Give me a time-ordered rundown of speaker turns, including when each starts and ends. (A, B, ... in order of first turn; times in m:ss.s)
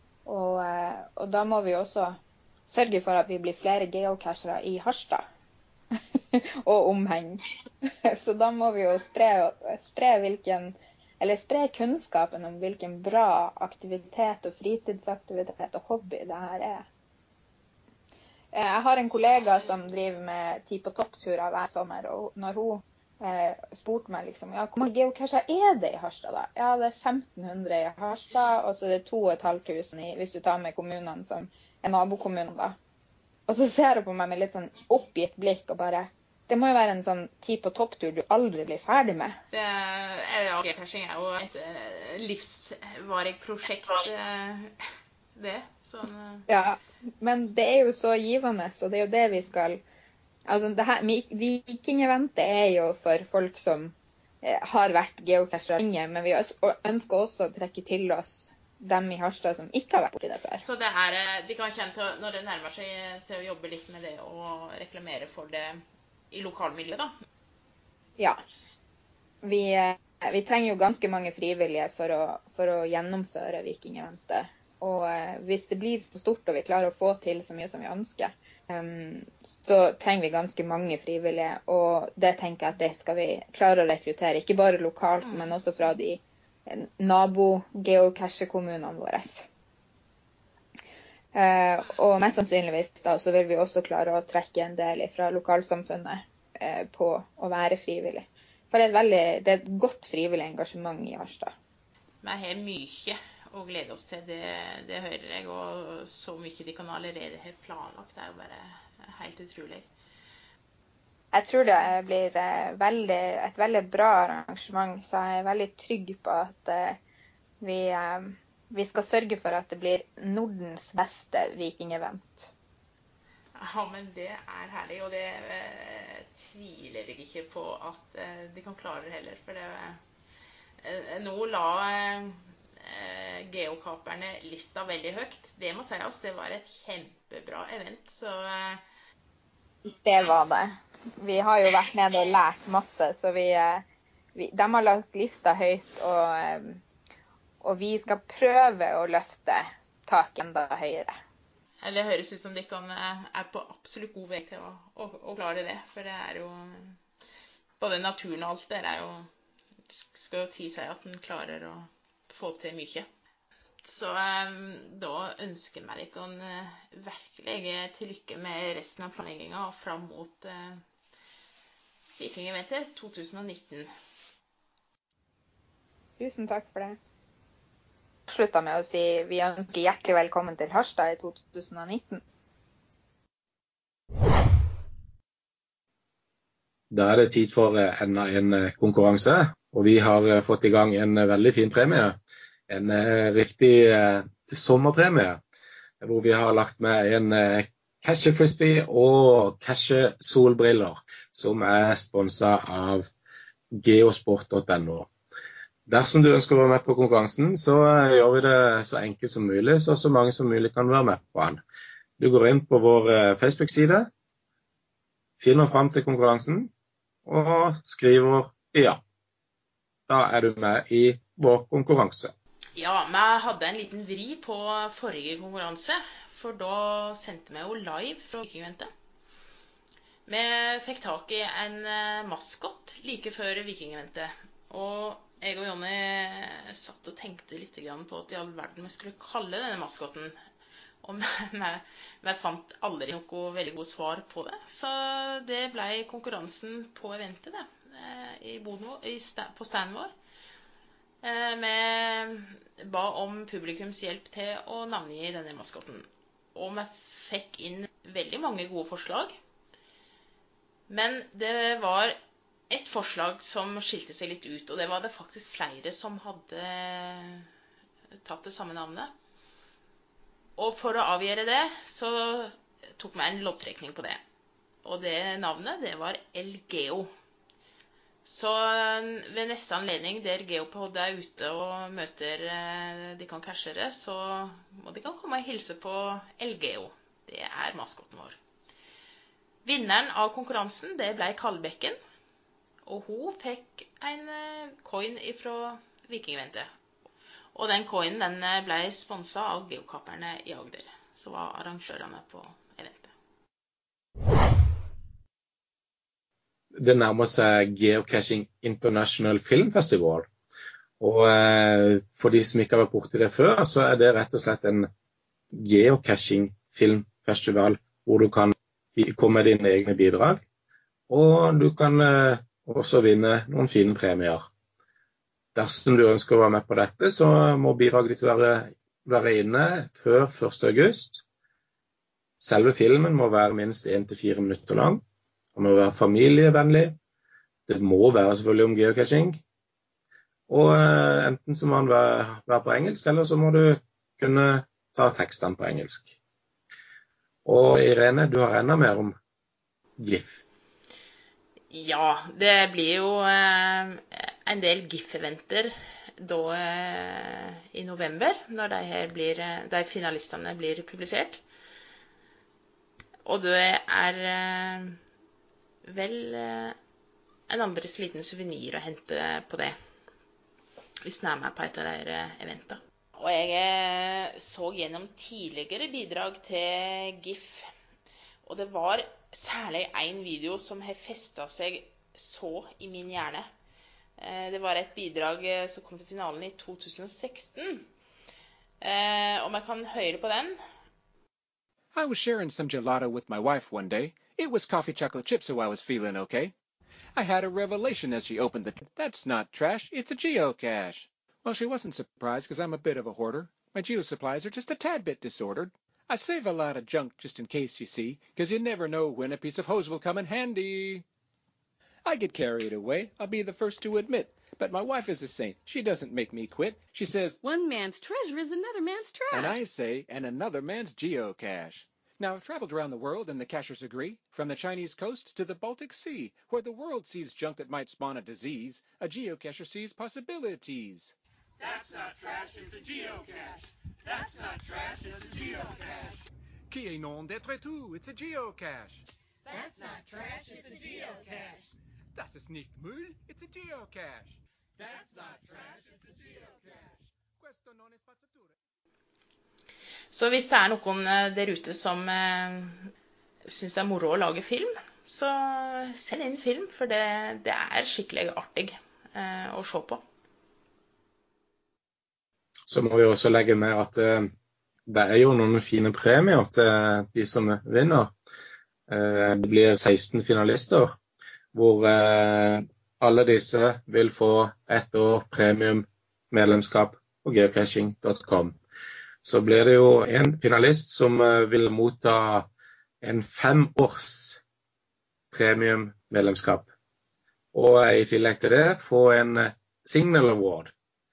0:00.2-0:05.2 A
0:06.1-0:07.4 A
0:08.0-0:16.8 A
0:18.5-0:32.8 A
0:33.5-0:39.4 A
0:39.5-0:44.8 B
0:45.3-0:46.5 B
0:46.5-0:49.8 A
0:50.5-1:00.6 A
1:00.6-1:07.1 B
1:09.4-1:29.4 A
1:25.2-1:25.5 B
1:31.3-1:41.5 A
1:42.2-1:49.9 B
1:51.3-1:57.0 A
1:57.6-2:02.5 A
2:03.5-2:10.0 B
2:10.8-2:18.8 B
2:19.9-2:26.8 A
2:27.6-2:31.2 A
2:31.8-2:37.0 B
2:37.8-2:39.3 B
2:39.9-2:43.1 B
2:43.8-2:50.8 B
2:52.2-2:53.9 B
2:56.2-2:57.0 A
2:58.3-3:02.2 A
3:06.9-3:12.2 C
3:12.7-3:15.4 C
3:16.0-3:23.1 C
3:23.7-3:25.1 C
3:25.9-3:31.6 C
3:32.2-3:34.1 C
3:35.4-3:36.7 C
3:37.2-3:39.0 C
3:40.1-3:42.3 C
3:42.8-3:48.9 B
3:50.3-4:00.3 B
4:01.0-4:10.1 B
4:11.2-4:19.3 B
4:20.9-4:22.2 B
4:22.7-4:27.5 B
4:28.2-4:29.1 B
4:30.6-4:34.2 B
4:34.8-4:37.1 B
4:38.2-4:48.4 B
4:49.6-4:52.0 B
4:52.8-4:56.7 B
4:57.5-5:03.1 B
5:06.8-5:10.3 C
5:11.0-5:14.9 C
5:15.5-5:20.4 C
5:21.1-5:24.4 C
5:25.5-5:31.2 C
5:32.4-5:35.0 C
5:35.5-5:37.0 C
5:37.7-5:39.4 C
5:40.5-5:46.1 C
5:47.4-5:49.2 C
5:50.0-5:50.4 C
5:51.7-6:01.4 B
6:03.2-6:05.0 B
6:05.8-6:06.8 B
6:07.5-6:09.7 B
6:11.0-6:17.7 B
6:18.4-6:23.5 B
6:24.2-6:27.9 B
6:28.8-6:30.6 B
6:31.9-6:36.5 D
6:37.2-6:51.0 D
6:38.2-6:38.8 E
6:39.7-6:40.1 E
6:46.6-6:47.4 E
6:48.1-6:49.1 E
6:52.0-6:57.3 D
6:54.3-6:57.2 E
6:57.4-6:59.5 F
6:59.5-7:11.1 D
7:05.0-7:07.0 E
7:07.5-7:08.2 E
7:11.6-7:16.1 E
7:16.7-7:19.0 D
7:19.6-7:21.6 E
7:22.2-7:24.2 E
7:22.2-7:24.4 D
7:24.8-7:26.7 E
7:27.4-7:28.5 D
7:27.4-7:28.3 E
7:30.1-7:32.9 B
7:33.4-7:40.0 B
7:42.7-7:44.3 C
7:44.9-7:48.1 C
7:48.9-7:50.9 C
7:51.5-7:58.6 C
7:59.2-8:02.5 C
8:03.0-8:04.4 C
8:05.3-8:06.7 C
8:07.5-8:10.7 C